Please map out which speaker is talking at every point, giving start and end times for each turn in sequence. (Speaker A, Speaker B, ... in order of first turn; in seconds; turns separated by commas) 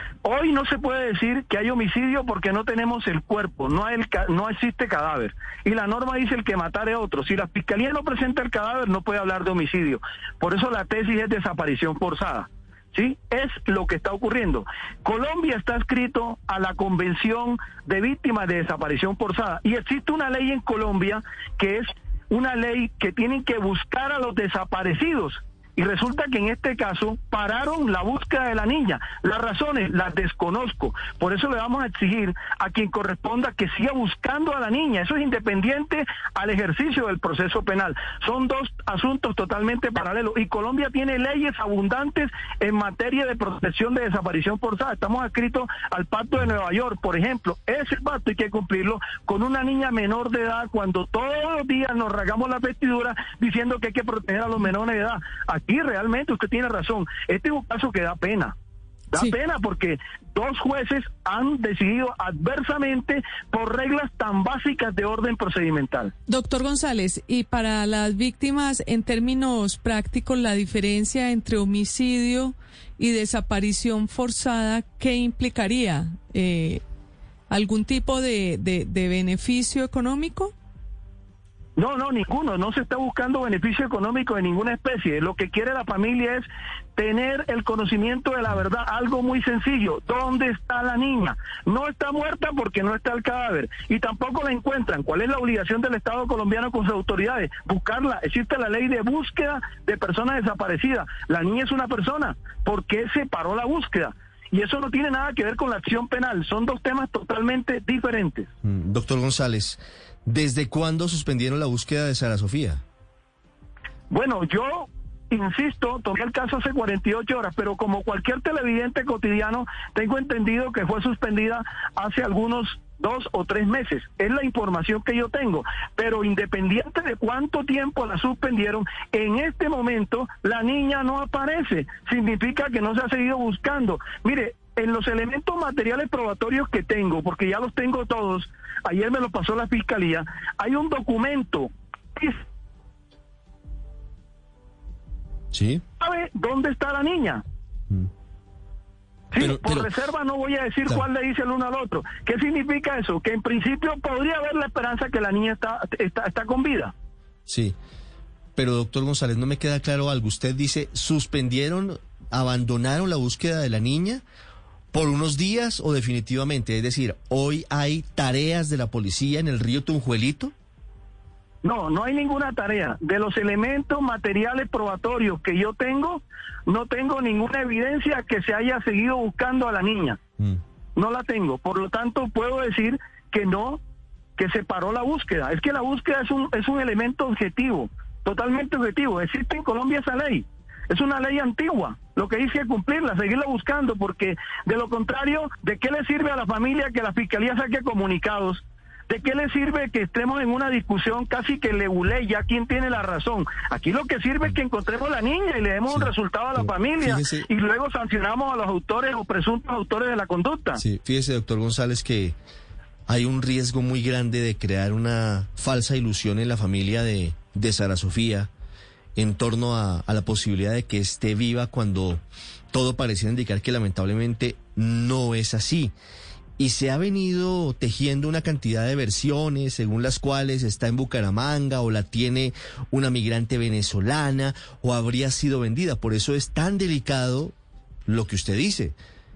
Speaker A: 0.2-58.5, Speaker A: 59.1-66.1, Speaker B: 66.3-76.8, Speaker B: 77.5-80.5, Speaker A: 81.8-108.5, Speaker C: 108.6-112.8, Speaker A: 114.1-142.4, Speaker C: 145.5-145.8, Speaker A: 146.0-147.4, Speaker A: 149.3-156.9, Speaker C: 149.4-149.9, Speaker C: 157.5-157.8, Speaker C: 158.6-164.2, Speaker C: 164.9-170.5, Speaker A: 171.6-180.2, Speaker A: 181.0-183.8, Speaker A: 184.4-210.8, Speaker C: 205.9-207.5, Speaker C: 210.8-212.3, Speaker C: 213.1-218.5, Speaker C: 219.2-225.9, Speaker C: 226.6-237.5, Speaker C: 238.1-238.9